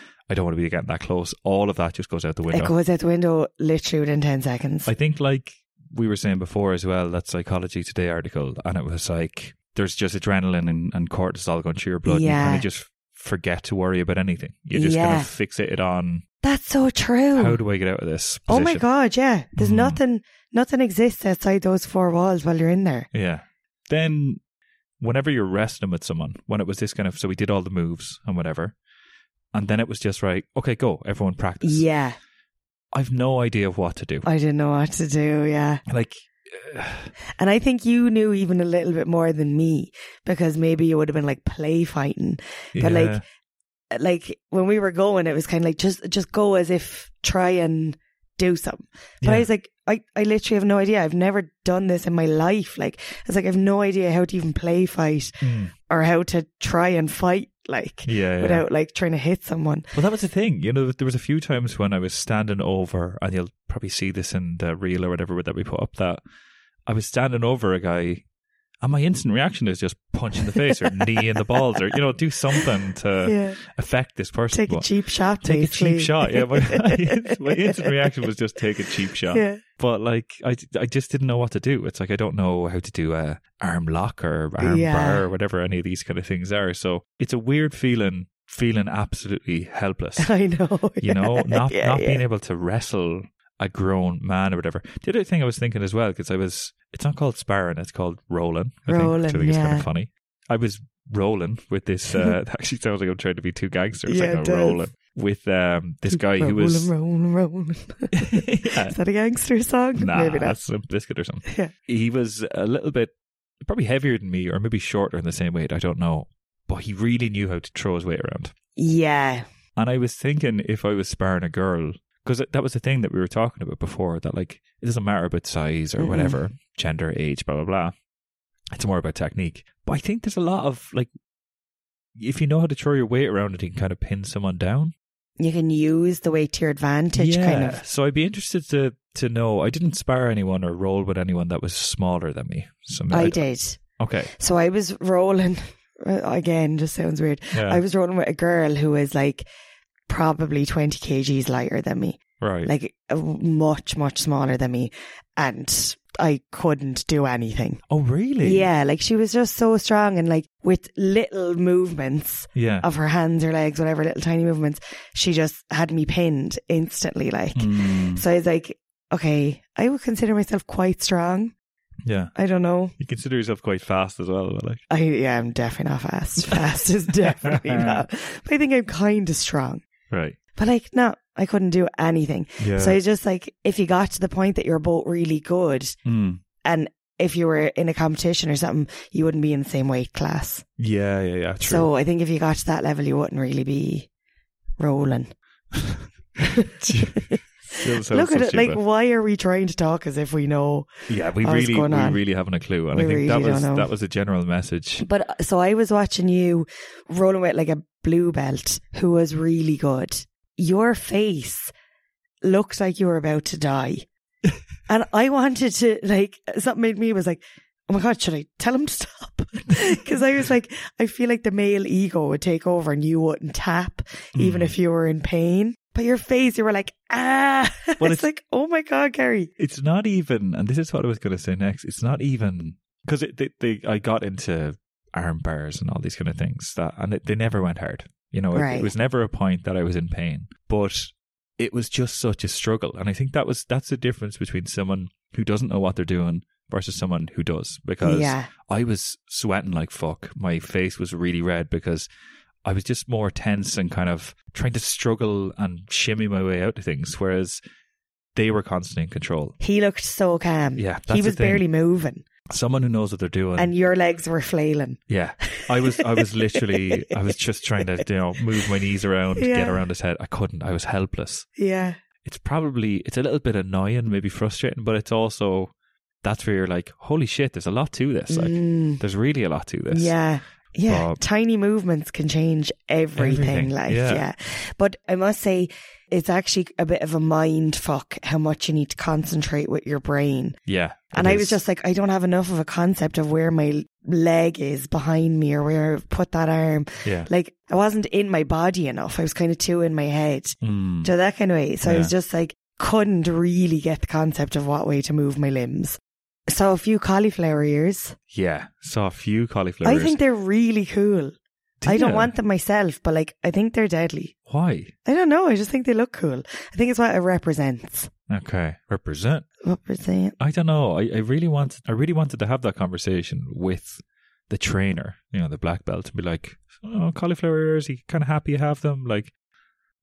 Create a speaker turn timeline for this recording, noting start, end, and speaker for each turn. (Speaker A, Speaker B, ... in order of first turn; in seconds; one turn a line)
Speaker A: 0.3-2.7
Speaker B: 2.5-4.9
Speaker A: 4.8-16.2
Speaker B: 12.1-12.7
Speaker B: 14.7-15.3
Speaker B: 16.4-17.6
Speaker A: 17.4-18.8
Speaker B: 18.5-23.1
Speaker A: 19.6-20.0
Speaker A: 23.1-24.4
Speaker A: 25.0-28.8
Speaker A: 29.5-31.9
Speaker B: 31.6-32.2
Speaker A: 32.9-34.3
Speaker B: 34.2-35.8
Speaker A: 35.9-37.1
Speaker B: 37.4-43.2
Speaker A: 42.7-43.2
Speaker B: 43.9-59.9
Speaker A: 49.2-49.5
Speaker A: 55.4-55.7
Speaker A: 58.0-58.7
Speaker A: 59.9-66.2
Speaker A: 66.9-68.2
Speaker A: 68.8-74.9
Speaker B: 70.5-71.4
Speaker B: 73.2-73.6
Speaker B: 74.5-78.0
Speaker A: 75.4-90.3
Speaker B: 79.3-79.6
Speaker B: 84.6-85.3
Speaker B: 90.2-92.2
Speaker A: 91.0-106.9
Speaker B: 98.9-99.9
Speaker B: 104.1-104.8
Speaker B: 106.1-110.6
Speaker A: 108.1-109.0
Speaker A: 110.0-118.5
Speaker B: 111.5-111.7
Speaker B: 118.8-119.5
Speaker A: 119.8-127.9
Speaker B: 126.0-126.4
Speaker A: 128.7-131.1
Speaker A: 132.2-134.9
Speaker B: 135.4-137.8
Speaker A: 137.2-143.4
Speaker B: 143.1-143.8
Speaker A: 144.0-144.3
Speaker B: 144.4-149.4
Speaker A: 147.5-147.8
Speaker B: 150.1-157.8
Speaker A: 152.4-152.7
Speaker A: 157.9-158.7
Speaker B: 158.4-171.5
Speaker A: 162.6-162.9
Speaker A: 167.6-168.2
Speaker A: 172.1-172.3
Speaker B: 172.3-172.9
Speaker A: 173.0-174.8
Speaker B: 174.9-179.8
Speaker A: 177.2-178.0
Speaker A: 180.1-180.4
Speaker B: 180.6-186.0
Speaker A: 182.6-183.0
Speaker A: 186.1-186.4
Speaker B: 186.6-190.7
Speaker A: 190.8-191.9
Speaker B: 191.6-194.1
Speaker B: 194.8-195.3
Speaker A: 195.7-196.1
Speaker B: 196.4-202.2
Speaker A: 196.8-198.8
Speaker A: 201.1-205.1
Speaker B: 202.9-203.9
Speaker B: 205.0-211.7
Speaker B: 212.4-214.1
Speaker B: 214.9-229.5
Speaker A: 224.3-224.7
Speaker A: 228.0-228.2
Speaker A: 229.6-252.1
Speaker B: 238.5-238.9
Speaker B: 248.0-248.5
Speaker A: 252.6-257.6
Speaker A: 258.4-259.6
Speaker B: 259.6-262.2
Speaker A: 260.8-261.6
Speaker A: 262.5-263.7
Speaker B: 263.6-267.2
Speaker A: 265.1-271.5
Speaker B: 269.4-269.8
Speaker B: 271.6-272.0
Speaker A: 272.2-275.7
Speaker A: 276.2-280.1
Speaker B: 278.3-279.0
Speaker B: 279.9-290.6
Speaker A: 280.9-281.2
Speaker A: 283.2-284.2
Speaker A: 290.7-291.6
Speaker B: 291.1-308.2
Speaker A: 300.6-301.1
Speaker A: 301.9-302.1
Speaker A: 308.3-310.2
Speaker B: 309.8-311.3
Speaker A: 311.8-312.3
Speaker B: 311.9-314.3
Speaker A: 314.5-314.9
Speaker B: 315.1-318.1
Speaker A: 318.3-319.4
Speaker B: 319.6-320.4
Speaker A: 320.4-329.3